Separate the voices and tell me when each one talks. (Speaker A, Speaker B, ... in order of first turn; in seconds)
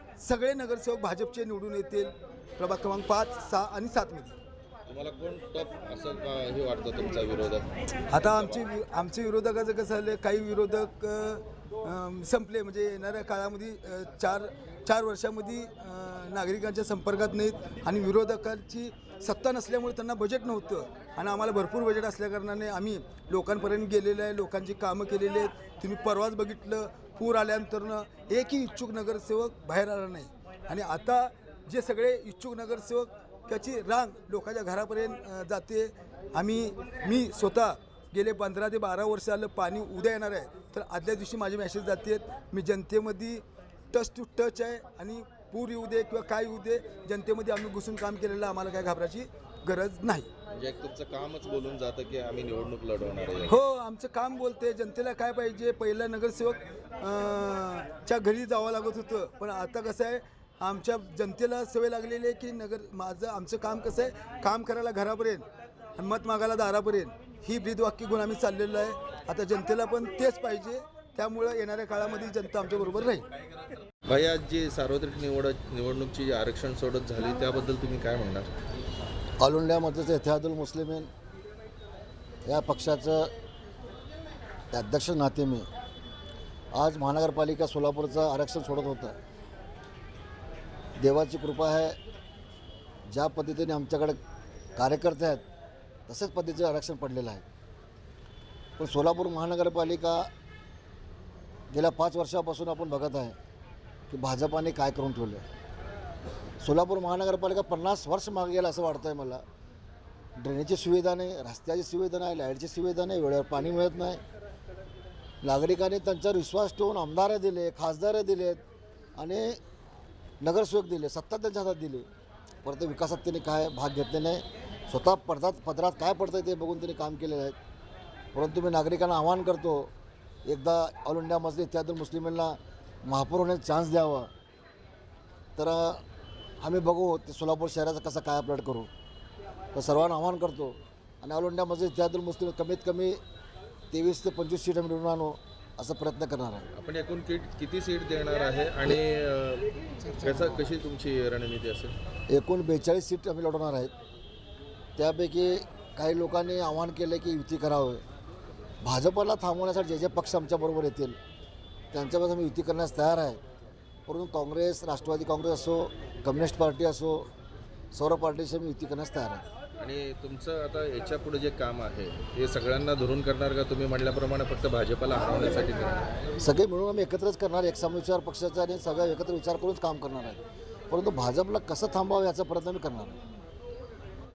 Speaker A: 0.2-4.4, 8.1-50.3, 53.5-65.5, 66.0-73.3
Speaker B: 4.9-8.6, 50.5-53.6, 74.1-78.5, 146.8-151.9, 169.8-176.2
Speaker C: 79.4-81.1, 82.5-83.3, 84.7-85.7, 86.8-89.2, 91.0-92.0, 93.1-94.2, 94.8-95.4, 96.1-97.4, 98.8-100.3, 101.7-103.4, 104.1-105.4, 106.6-109.4, 110.4-114.2, 115.4-118.6, 119.2-119.6, 120.4-122.1, 122.6-127.6, 128.3-129.9, 130.5-134.3, 135.6-136.0, 136.6-138.9, 139.7-143.2, 143.9-146.7, 152.3-153.9, 155.0-158.0, 158.8-161.2, 161.9-163.4, 164.1-167.3, 167.9-169.4, 176.4-183.2